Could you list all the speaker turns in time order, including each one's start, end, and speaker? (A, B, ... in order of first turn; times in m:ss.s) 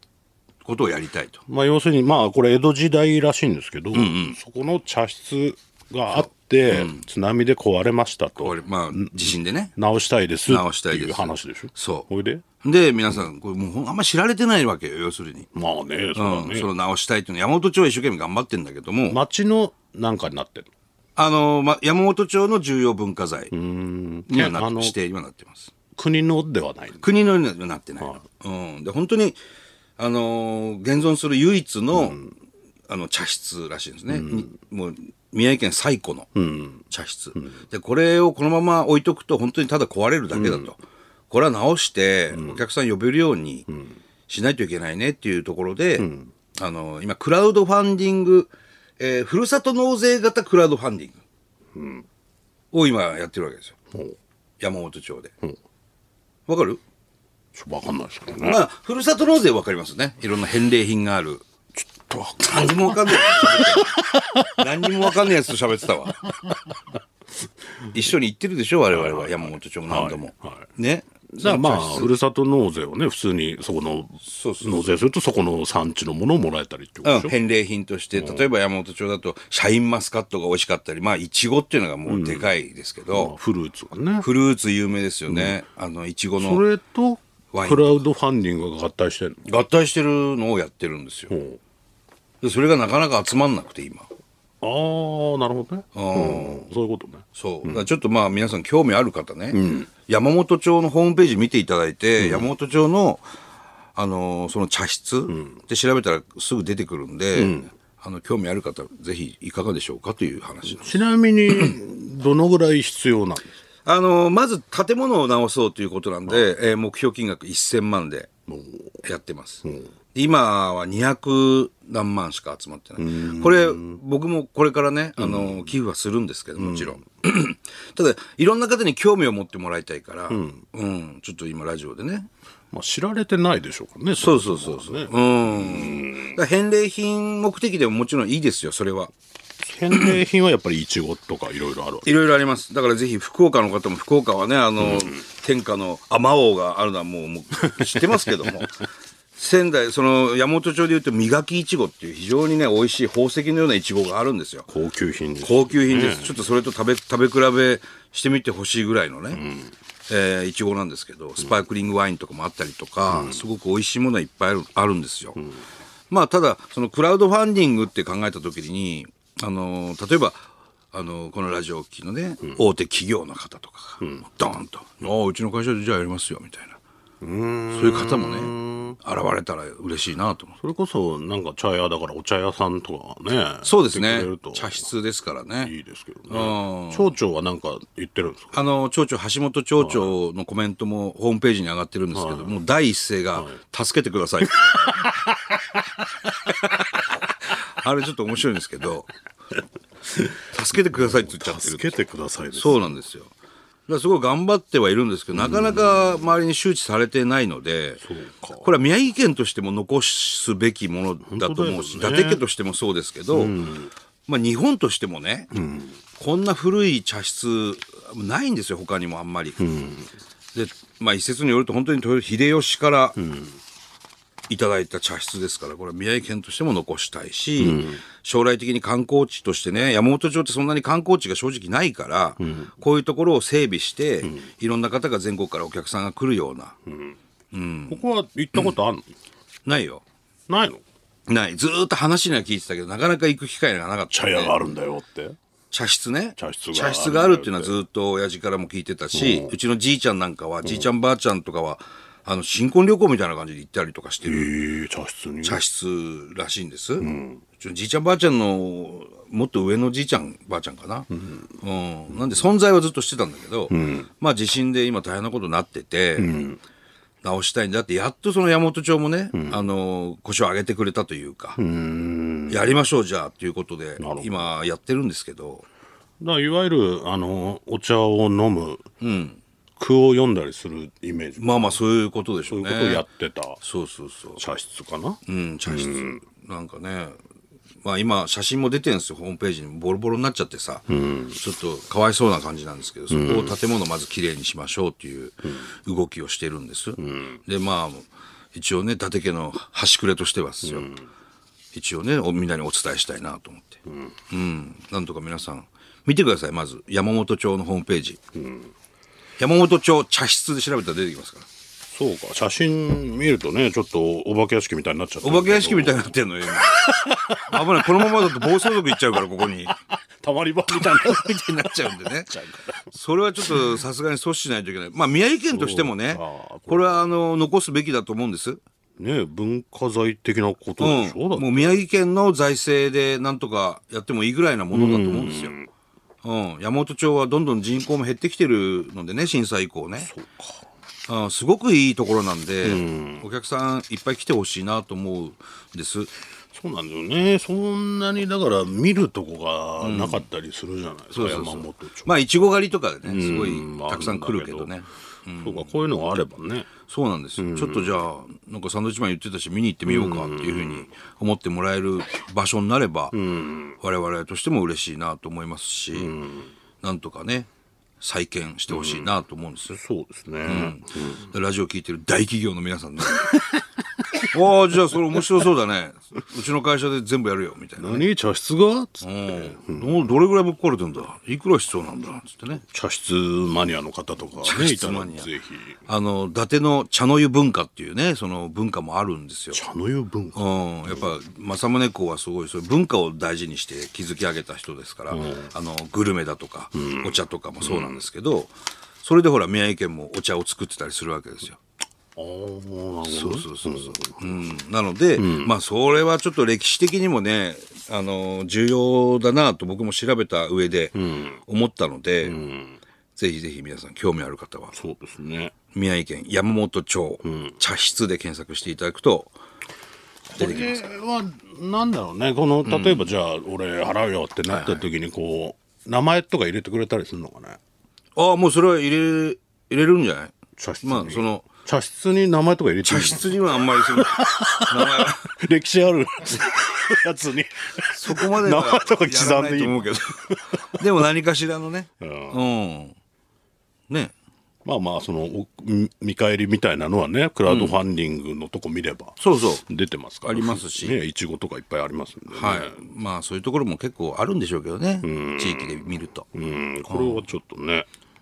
0:00.6-0:01.4 A
0:01.5-0:12.4 B
0:03.9-0:04.4 A
0:06.1-0:07.0 A
0:08.4-0:09.7 A
0:10.5-0:12.1 A
0:12.6-0:15.5 A
0:15.5-0:16.7 B
0:16.2-0:19.2 A
0:19.1-0:20.7 B
0:21.2-0:23.5 A
0:23.5-0:25.0 B
0:24.3-0:25.7 A
0:26.0-0:27.1 B
0:27.0-0:29.4 A
0:30.0-0:32.2 A
0:31.9-0:32.3 B
0:32.9-0:36.3 A
0:34.1-0:34.5 B
0:36.4-0:36.8 B
0:36.9-0:40.8 A
0:40.3-0:40.7 B
0:41.3-0:43.7 A
0:42.3-0:42.6 B
0:44.3-0:51.2 A
0:46.0-0:46.3 B
0:51.8-0:52.0 B
0:52.7-0:53.8 A
0:54.6-0:55.3 A
0:56.5-0:56.8 A
0:57.5-0:58.6 B
0:58.4-1:01.4 A
1:01.8-1:05.1 B
1:02.4-1:06.3 A
1:07.9-1:12.1 A
1:08.9-1:10.7 B
1:11.3-1:17.3 B
1:14.2-1:15.0 A
1:17.0-1:23.3 A
1:18.2-1:18.4 B
1:22.1-1:22.5 B
1:23.1-1:24.3 B
1:24.2-1:26.6 A
1:25.3-1:25.6 B
1:26.4-1:29.4 B
1:27.5-1:28.0 A
1:29.4-1:31.4 A
1:31.3-1:31.6 B
1:32.4-1:34.1 A
1:34.6-1:37.9 B
1:35.9-1:36.6 A
1:37.4-1:43.2 A
1:39.5-1:39.9 B
1:42.2-1:42.5 B
1:44.0-1:51.0 A
1:47.4-1:47.7 B
1:50.7-1:53.5 B
1:53.8-1:58.3 A
1:58.5-1:59.0 B
1:59.0-2:12.3 A
1:59.6-1:59.9 B
2:03.0-2:04.0 B
2:05.2-2:05.8 B
2:06.6-2:07.0 B
2:10.3-2:10.6 B
2:12.7-2:16.4 B
2:14.2-2:19.1 A
2:19.6-2:22.1 B
2:22.0-2:28.8 A
2:24.8-2:25.1 B
2:27.8-2:28.5 B
2:29.4-2:34.7 A
2:34.7-2:36.4 B
2:35.4-2:39.4 A
2:39.3-2:39.7 B
2:40.1-2:45.4 A
2:43.1-2:43.4 B
2:46.1-2:56.8 A
2:57.2-2:59.0 B
2:57.7-3:00.6 A
3:00.6-3:04.9 B
3:03.6-3:05.7 A
3:05.6-3:08.5 B
3:06.3-3:07.1 A
3:08.5-3:15.1 A
3:09.8-3:10.1 B
3:12.1-3:12.6 B
3:14.4-3:16.0 B
3:17.5-3:19.1 A
3:20.1-3:20.4 B
3:20.5-3:22.0 A
3:20.9-3:23.0 B
3:22.5-3:23.3 A
3:23.9-3:28.0 A
3:25.4-3:26.2 B
3:28.0-3:28.7 B
3:28.6-3:33.6 A
3:31.2-3:32.4 B
3:33.3-3:33.9 B
3:34.3-3:35.5 A
3:35.5-3:36.0 B
3:36.2-3:39.6 A
3:39.6-3:40.1 B
3:40.5-3:43.2 A
3:43.2-3:43.6 B
3:44.5-3:56.8 A
3:47.6-3:48.0 B
3:52.4-3:52.7 B
3:56.9-3:57.2 B
3:57.5-3:58.0 A
3:57.9-3:59.1 B
3:59.7-4:00.0 A
4:00.5-4:00.8 B
4:01.3-4:04.6 A
4:04.1-4:05.4 B
4:05.7-4:14.5 A
4:06.4-4:07.8 B
4:09.1-4:09.5 B
4:14.2-4:15.6 B
4:15.4-4:26.4 A
4:17.0-4:17.4 B
4:23.7-4:24.1 B
4:26.2-4:26.6 B
4:27.2-4:31.6 A
4:29.3-4:29.6 B
4:31.6-4:32.7 B
4:32.5-4:35.7 A
4:34.0-4:34.5 B
4:36.2-4:38.8 B
4:39.0-4:39.4 A
4:39.8-4:41.8 B
4:41.4-4:43.0 A
4:42.5-4:43.6 B
4:43.6-4:44.4 A
4:44.4-4:46.2 B
4:45.3-4:47.2 A
4:47.8-5:00.9 A
4:50.9-4:51.4 B
4:53.1-4:53.6 B
4:57.0-4:57.4 B
5:00.6-5:01.0 B
5:01.7-5:08.2 A
5:08.4-5:08.7 B
5:09.4-5:11.5 A
5:11.9-5:23.8 B
5:15.2-5:16.9 A
5:17.4-5:19.8 A
5:20.7-5:22.3 A
5:22.9-5:28.6 A
5:25.5-5:27.0 B
5:29.0-5:31.8 B
5:30.8-5:35.6 A
5:34.7-5:35.7 B
5:36.2-5:40.1 A
5:40.0-5:40.6 B
5:41.1-5:46.1 A
5:42.6-5:43.3 B
5:46.5-5:52.2 B
5:49.8-5:50.3 A
5:51.1-5:55.7 A
5:53.0-5:54.7 B
5:55.4-5:56.7 B
5:56.9-6:03.2 A
5:57.4-5:58.0 B
5:59.9-6:00.9 B
6:03.1-6:03.8 B
6:03.8-6:06.2 A
6:05.9-6:06.5 B
6:06.8-6:07.5 A
6:08.0-6:09.8 A
6:08.7-6:09.1 B
6:09.7-6:11.3 B
6:10.4-6:13.4 A
6:13.1-6:13.6 B
6:14.2-6:18.0 A
6:17.8-6:20.1 B
6:19.0-6:22.6 A
6:22.6-6:25.8 B
6:24.4-6:25.3 A
6:25.9-6:29.6 A
6:29.5-6:31.0 B
6:30.4-6:41.6 A
6:35.1-6:35.5 B
6:36.8-6:38.0 B
6:42.2-6:44.5 B
6:43.1-6:52.4 A
6:45.2-6:45.5 B
6:51.0-6:51.4 B
6:52.2-6:52.8 B
6:53.2-6:54.8 A
6:54.7-6:55.5 B
6:55.7-6:59.4 A
6:57.2-6:57.5 B
7:00.3-7:07.6 B
7:00.4-7:00.8 A
7:02.6-7:03.1 A
7:04.5-7:04.8 A
7:08.2-7:11.5 A
7:10.6-7:20.8 B
7:12.8-7:15.3 A
7:17.9-7:23.0 A
7:22.0-7:22.4 B
7:23.9-7:24.1 A
7:24.6-7:32.8 B
7:27.5-7:27.8 A
7:29.2-7:29.6 A
7:30.2-7:31.0 A
7:32.3-7:36.3 A
7:35.0-7:37.9 B
7:36.9-7:37.3 A